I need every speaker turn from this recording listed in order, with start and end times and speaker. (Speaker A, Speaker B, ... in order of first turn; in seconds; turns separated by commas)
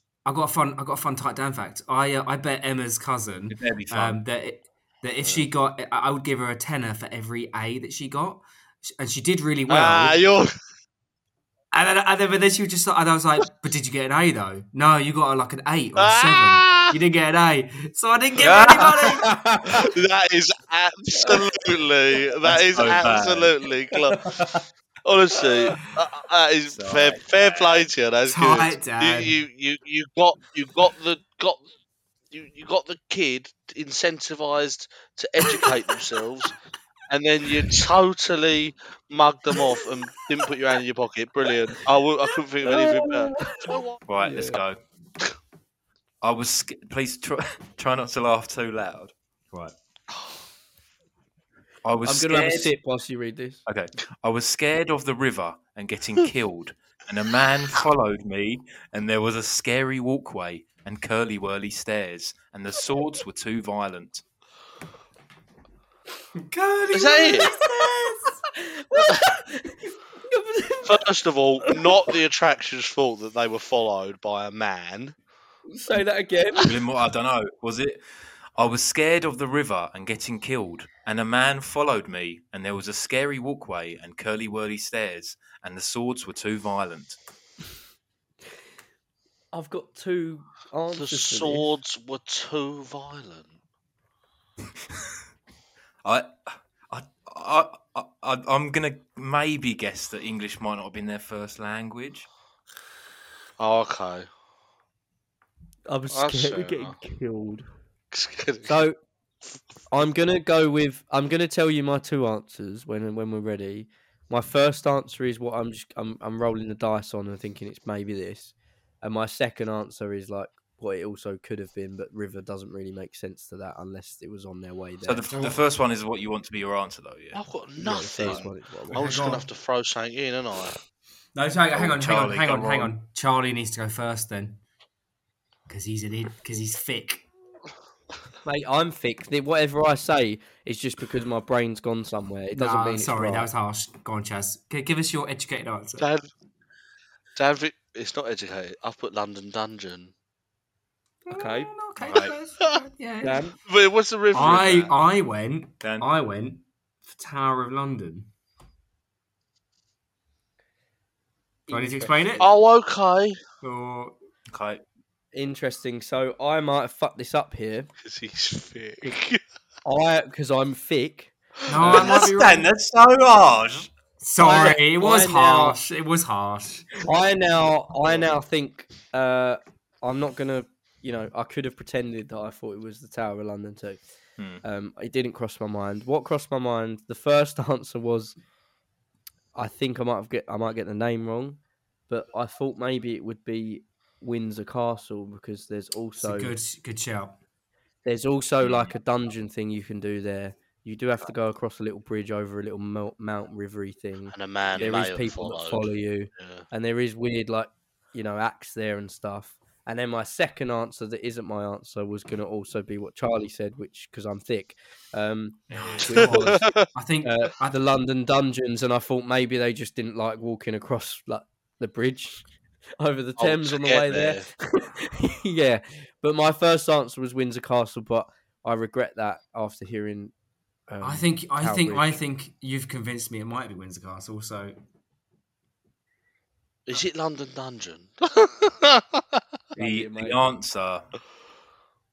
Speaker A: 0.2-10.2, Speaker B: 3.5-4.2, Speaker C: 5.2-5.5, Speaker C: 9.7-10.5, Speaker A: 11.7-19.4, Speaker C: 15.9-16.9, Speaker B: 18.4-19.2, Speaker D: 19.2-19.8, Speaker C: 19.7-24.3, Speaker B: 22.5-23.5, Speaker D: 24.1-24.6, Speaker C: 25.0-31.6, Speaker B: 26.7-27.9, Speaker A: 28.2-29.4, Speaker C: 32.3-36.5, Speaker C: 37.1-44.0, Speaker D: 42.6-44.6, Speaker B: 44.0-44.8, Speaker B: 46.2-49.7, Speaker B: 51.8-52.7, Speaker D: 52.0-53.6, Speaker B: 53.6-64.2, Speaker A: 66.4-68.4, Speaker C: 66.9-67.5, Speaker D: 67.4-71.0, Speaker C: 70.8-75.1, Speaker D: 71.6-72.1, Speaker D: 75.7-76.7, Speaker B: 76.6-78.0, Speaker B: 78.5-87.2, Speaker D: 89.5-91.7, Speaker C: 91.0-93.5, Speaker B: 96.0-102.3, Speaker C: 103.6-104.3, Speaker D: 105.9-107.7, Speaker C: 106.1-107.0, Speaker C: 108.1-108.8, Speaker D: 108.6-109.0, Speaker D: 109.9-125.2, Speaker B: 125.0-127.4, Speaker A: 125.3-125.6, Speaker C: 127.3-130.8, Speaker D: 127.8-129.0, Speaker A: 128.9-129.5, Speaker A: 131.3-134.6, Speaker B: 131.7-132.9, Speaker A: 135.7-137.3, Speaker D: 138.4-143.5, Speaker A: 142.5-146.1, Speaker C: 146.0-146.3, Speaker C: 147.3-150.1, Speaker A: 151.3-153.4, Speaker D: 151.3-151.7, Speaker B: 152.0-152.3, Speaker D: 153.2-153.6, Speaker C: 153.7-154.9, Speaker A: 154.3-158.3, Speaker B: 155.8-156.1, Speaker D: 161.7-162.6, Speaker A: 161.7-162.5, Speaker C: 162.4-163.4, Speaker A: 163.6-164.2, Speaker B: 164.5-164.8, Speaker D: 165.3-167.9, Speaker C: 168.0-169.4, Speaker D: 169.8-171.3, Speaker A: 171.7-172.7, Speaker C: 171.8-172.1, Speaker B: 171.8-173.9, Speaker A: 174.2-176.9, Speaker D: 174.4-175.8, Speaker D: 177.0-184.0, Speaker D: 184.6-188.3, Speaker D: 189.6-196.5, Speaker A: 196.2-197.4, Speaker D: 198.1-222.4, Speaker B: 198.6-198.9, Speaker C: 204.3-206.7, Speaker B: 215.7-216.1, Speaker A: 215.7-217.6, Speaker C: 216.1-216.9, Speaker D: 223.0-230.3, Speaker C: 223.4-224.4, Speaker D: 230.9-232.2, Speaker A: 231.0-234.8, Speaker C: 236.9-239.4, Speaker D: 239.7-240.5, Speaker B: 239.8-241.1